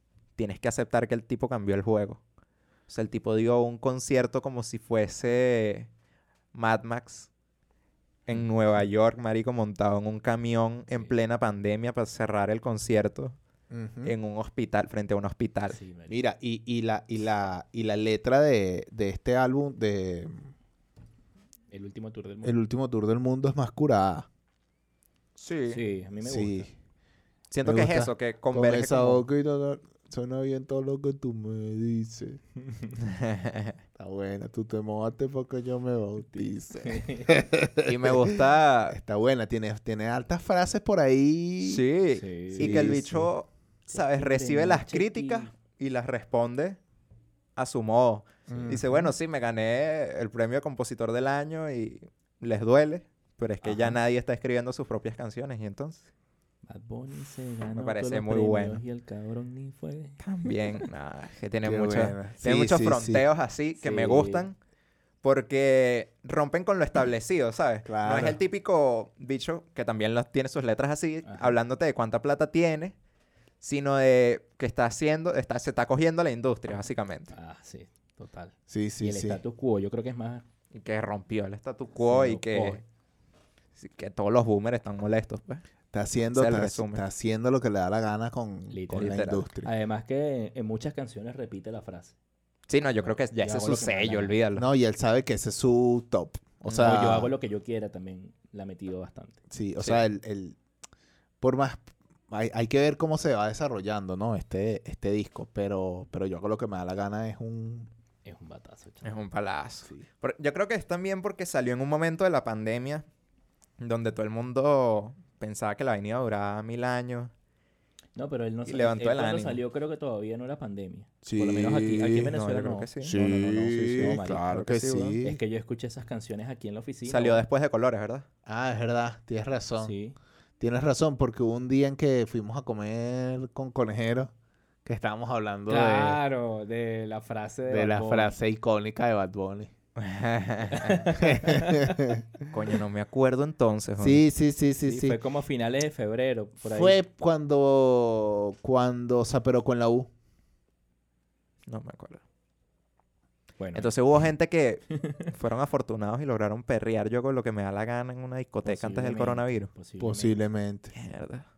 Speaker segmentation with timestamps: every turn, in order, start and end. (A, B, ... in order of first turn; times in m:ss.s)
0:00.4-0:02.2 A
0:02.9-0:05.9 A
0:06.5-0:07.3 A
0:08.3-0:13.4 A
0:13.7-0:14.1 B
0:14.0-0:15.8 A
0:15.7-0:16.2 C
0:16.1-0:20.5 B
0:21.7-0:22.6 C
0:22.4-0:24.3 B
0:25.4-0:25.8 A
0:25.7-0:26.7 C
0:26.2-0:26.7 B
0:27.5-0:29.2 A
0:27.6-0:32.4 B
0:33.0-0:33.8 A
0:34.0-0:41.8 B
0:36.8-0:37.3 C
0:37.8-0:39.0 A
0:41.6-0:46.8 A
0:42.2-0:43.0 C
0:42.6-0:43.3 B
0:43.9-0:45.5 C
0:47.6-0:56.1 A
0:48.5-0:48.9 C
0:48.5-0:49.0 B
0:53.6-0:54.0 C
0:56.6-1:00.2 C
0:57.8-0:58.8 A
1:00.2-1:04.6 A
1:01.6-1:03.2 B
1:03.8-1:04.5 C
1:05.2-1:12.9 A
1:07.8-1:08.4 B
1:11.2-1:11.6 C
1:13.6-1:17.3 A
1:17.3-1:20.4 C
1:18.7-1:19.4 B
1:20.7-1:22.8 A
1:22.0-1:22.8 C
1:23.8-1:25.6 A
1:25.9-1:29.7 B
1:26.3-1:27.0 A
1:28.7-1:32.2 C
1:28.9-1:29.4 A
1:32.7-1:34.7 A
1:33.0-1:34.4 C
1:34.5-1:37.3 B
1:36.6-1:39.4 C
1:39.5-1:40.6 B
1:41.4-1:47.9 B
1:48.2-1:49.2 C
1:49.0-1:53.0 A
1:53.8-1:57.3 A
1:58.2-2:07.4 C
1:58.6-1:59.6 A
2:01.2-2:02.3 B
2:02.2-2:03.2 A
2:03.0-2:05.4 B
2:03.7-2:05.1 A
2:07.0-2:08.2 A
2:08.4-2:09.9 B
2:09.8-2:10.2 C
2:10.6-2:14.3 B
2:14.8-2:16.2 B
2:15.7-2:18.3 C
2:17.7-2:19.7 B
2:20.0-2:21.2 A
2:20.7-2:22.0 C
2:21.2-2:22.2 B
2:22.5-2:24.2 A
2:24.0-2:25.2 B
2:24.8-2:27.0 C
2:26.6-2:30.1 B
2:31.7-2:32.2 A
2:33.6-2:33.9 C
2:33.7-2:39.7 A
2:35.0-2:35.3 C
2:38.6-2:40.4 C
2:40.0-2:40.9 B
2:40.9-2:41.5 A